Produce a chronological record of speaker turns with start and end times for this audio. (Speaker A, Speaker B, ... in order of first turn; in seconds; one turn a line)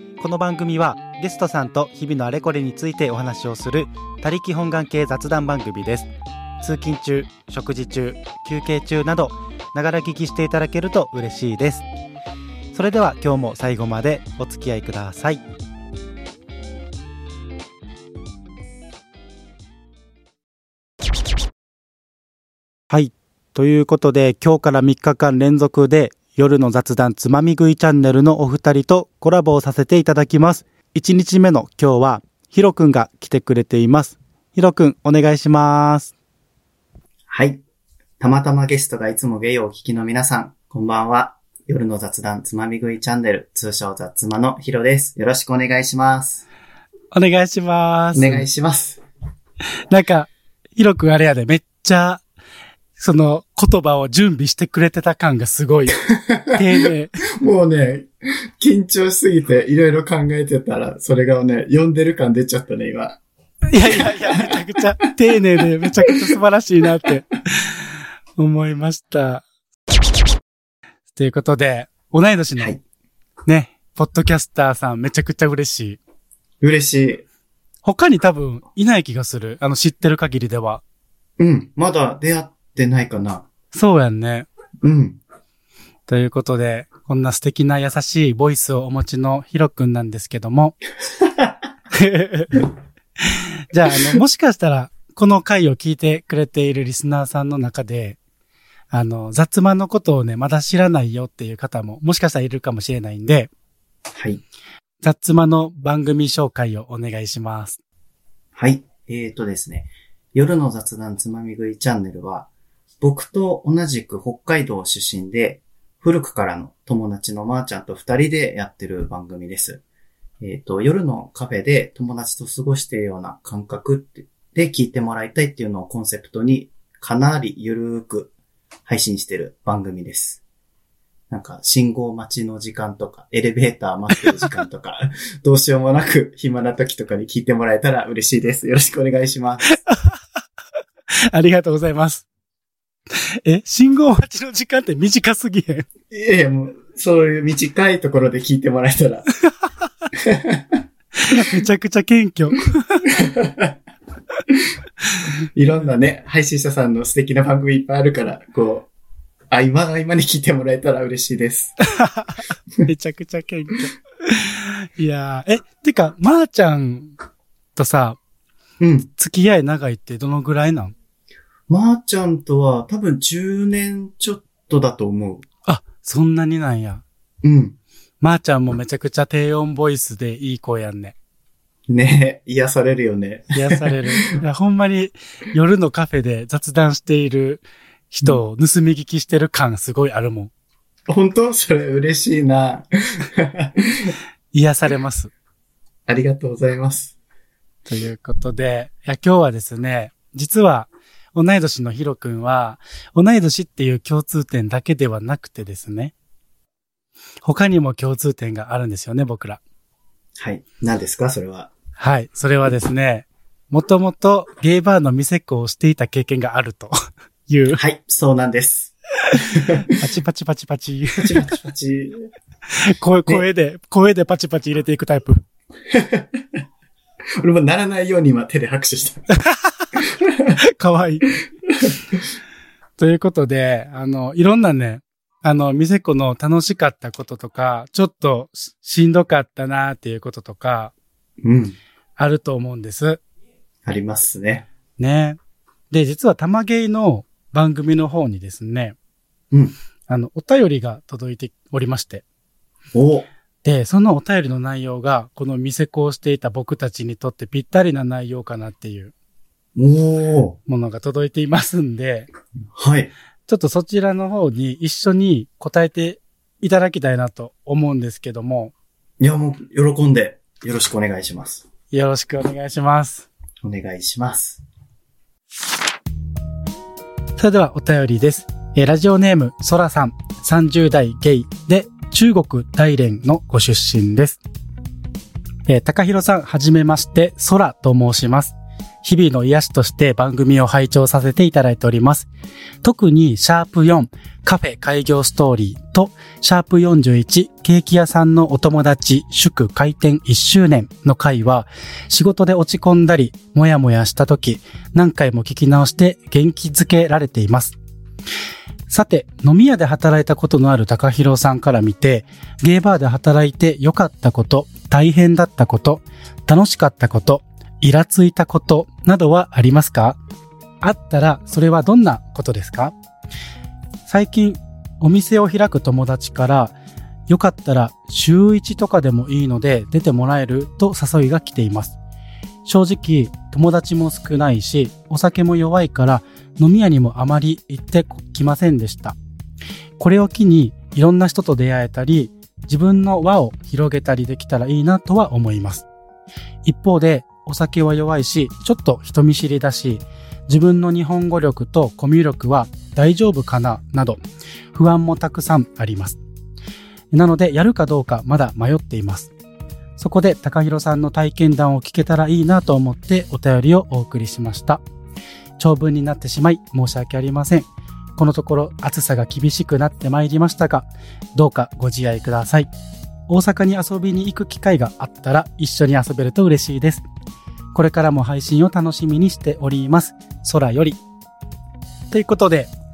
Speaker A: 0.2-6.1
Speaker A: 6.6-11.9
Speaker A: 12.7-15.4
Speaker A: 22.9-36.1
Speaker B: 37.3-37.6
Speaker B: 38.2-46.4
Speaker A: 47.1-48.5
Speaker B: 48.1-49.0
Speaker A: 49.9-52.2
Speaker A: 53.0-56.0
Speaker B: 56.1-63.2
Speaker A: 56.5-57.2
Speaker A: 63.7-69.5
Speaker B: 63.9-64.6
Speaker A: 71.1-72.8
Speaker A: 73.5-76.0
Speaker B: 76.6-77.2
Speaker A: 77.8-80.8
Speaker B: 81.4-83.5
Speaker A: 83.7-84.5
Speaker B: 84.8-85.2
Speaker A: 86.1-90.8
Speaker B: 91.2-91.5
Speaker A: 91.9-92.7
Speaker A: 93.2-98.2
Speaker A: 98.9-103.5
Speaker B: 104.1-104.4
Speaker A: 105.0-107.8
Speaker B: 108.5-112.5
Speaker B: 113.0-119.8
Speaker B: 120.4-128.3
Speaker B: 128.9-130.4
Speaker B: 131.3-139.8
Speaker A: 134.2-134.5
Speaker A: 139.7-140.2
Speaker A: 141.3-142.3
Speaker A: 143.2-145.9
Speaker B: 146.1-149.3
Speaker B: 150.1-150.8
Speaker A: 151.2-153.2
Speaker B: 153.1-153.7
Speaker B: 155.5-158.9
Speaker B: 159.5-161.8
Speaker A: 161.9-167.2
Speaker A: 167.8-168.2
Speaker B: 168.8-169.1
Speaker A: 169.2-170.9
Speaker B: 171.7-175.4
Speaker A: 175.7-177.0
Speaker B: 177.4-177.8
Speaker A: 178.2-181.2
Speaker B: 181.9-184.0
Speaker A: 183.5-190.5
Speaker B: 191.1-194.1
Speaker A: 194.5-195.3
Speaker B: 196.1-197.1
Speaker A: 197.9-206.1
Speaker A: 207.4-209.6
Speaker B: 210.4-211.7
Speaker A: 212.0-217.0
Speaker A: 217.5-217.8
Speaker B: 217.7-219.9
Speaker A: 219.3-221.6
Speaker B: 221.2-222.3
Speaker A: 222.7-225.5
Speaker B: 225.9-226.6
Speaker B: 227.4-229.2
Speaker A: 229.4-229.9
Speaker B: 230.0-230.6
Speaker A: 230.6-231.3
Speaker B: 231.7-232.2
Speaker A: 233.0-240.9
Speaker B: 241.4-241.8
Speaker A: 242.2-243.2
Speaker B: 243.8-244.7
Speaker A: 245.0-245.4
Speaker A: 245.9-249.0
Speaker A: 250.1-252.2
Speaker B: 252.9-253.3
Speaker A: 253.6-259.1
Speaker B: 259.8-260.6
Speaker A: 260.7-262.3
Speaker B: 262.7-263.1
Speaker A: 263.5-268.7
Speaker B: 269.2-271.6
Speaker A: 271.9-273.3
Speaker B: 273.6-274.6
Speaker A: 277.4-284.4
Speaker A: 285.7-292.3
Speaker A: 292.8-307.8
Speaker A: 308.9-320.2
Speaker A: 320.8-322.9
Speaker A: 324.1-326.8
Speaker A: 327.3-332.0
Speaker A: 332.6-339.2
Speaker A: 340.0-345.9
Speaker A: 346.6-354.2
Speaker A: 354.7-356.2
Speaker A: 357.1-359.3
Speaker A: 360.0-364.8
Speaker A: 365.6-372.7
Speaker A: 373.3-377.1
Speaker A: 377.7-381.0
Speaker A: 382.1-382.7